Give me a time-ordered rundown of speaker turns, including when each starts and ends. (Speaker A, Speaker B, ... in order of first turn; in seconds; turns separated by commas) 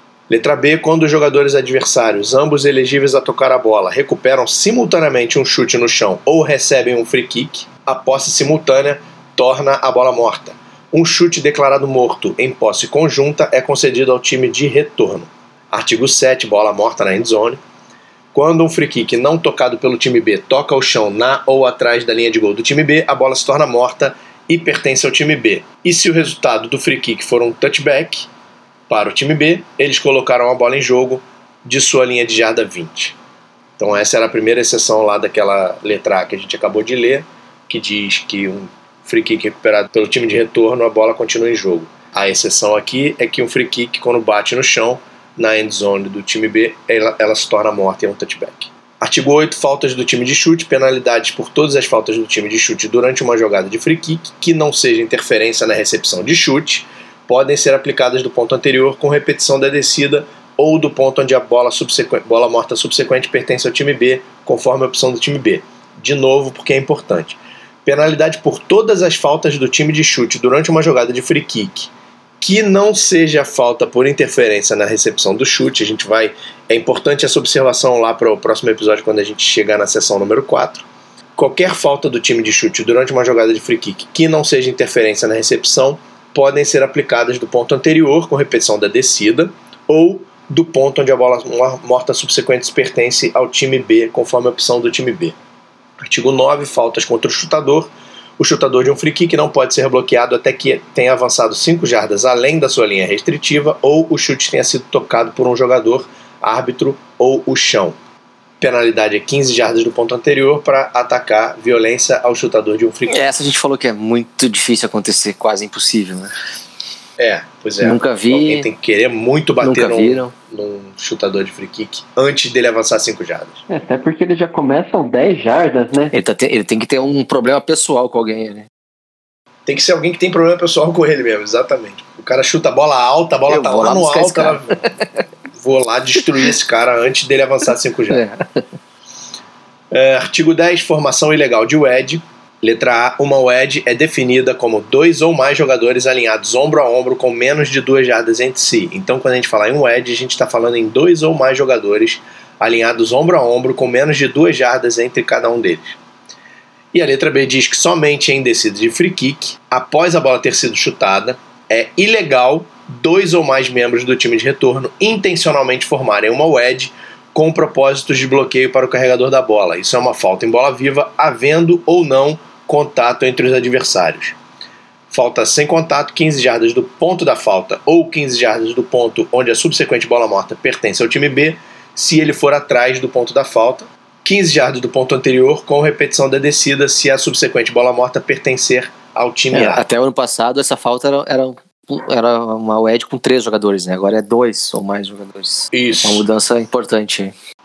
Speaker A: 0.3-17.6, Speaker A: 18.3-28.3, Speaker A: 28.9-33.2, Speaker A: 33.8-71.9, Speaker A: 72.4-80.9, Speaker A: 81.4-95.3, Speaker A: 96.0-108.0, Speaker A: 108.6-113.2, Speaker B: 113.1-116.3, Speaker A: 117.2-123.6, Speaker B: 117.8-118.7, Speaker B: 119.6-120.3, Speaker C: 123.7-126.1, Speaker B: 126.1-128.7, Speaker A: 129.7-134.9, Speaker B: 133.5-135.2, Speaker A: 135.6-138.2, Speaker B: 138.1-138.7, Speaker A: 139.9-156.0, Speaker A: 156.9-174.4, Speaker A: 175.1-189.9, Speaker B: 189.5-197.3, Speaker A: 195.7-196.2